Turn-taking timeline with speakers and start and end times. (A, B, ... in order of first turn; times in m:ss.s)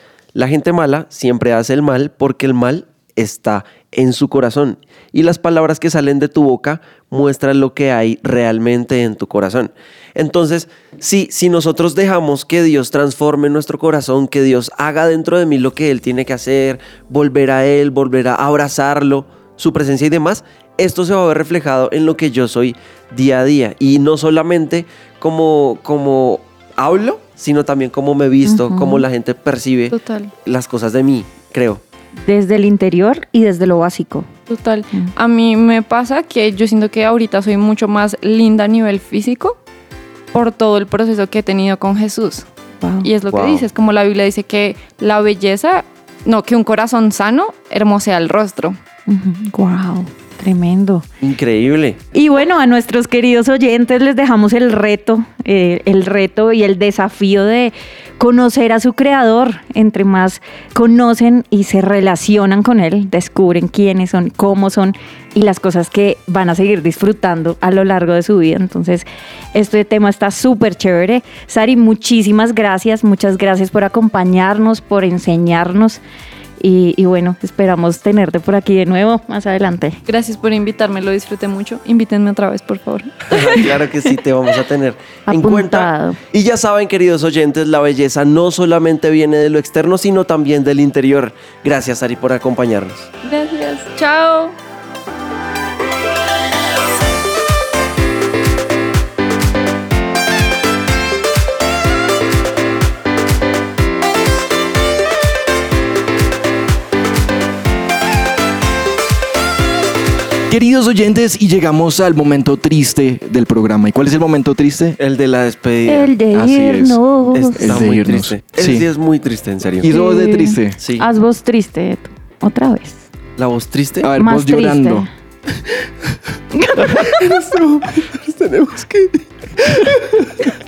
0:00.3-0:31.8 A
0:28.5-0:29.0 B
0:29.9-0:30.3 C
0:32.2-0:34.3 B
0:34.5-0:39.6 C
0:40.3-0:42.5 C
0:42.8-0:43.1 B
0:43.0-0:48.8 C
0:43.3-0:43.7 A
0:49.1-0:51.0 B
0:51.2-0:52.0 A
0:52.1-1:16.0 B
1:16.6-1:20.0 B
1:20.1-1:23.6 C
1:23.3-1:33.1 A
1:25.3-1:26.2 B
1:33.2-1:34.5 C
1:50.5-1:55.0 D
1:55.0-1:56.1 A
1:55.9-1:57.7 B
1:56.3-1:57.0 D
1:57.3-2:00.0 A
1:57.6-1:58.9 D
1:59.8-2:00.8 D
1:59.9-2:03.0 B
2:00.8-2:01.0 A
2:03.4-2:04.1 A
2:04.0-2:05.1 D
2:04.2-2:05.1 B
2:06.6-2:07.1 B
2:06.8-2:08.9 D
2:07.2-2:07.6 A
2:08.2-2:09.1 A
2:09.7-2:10.3 D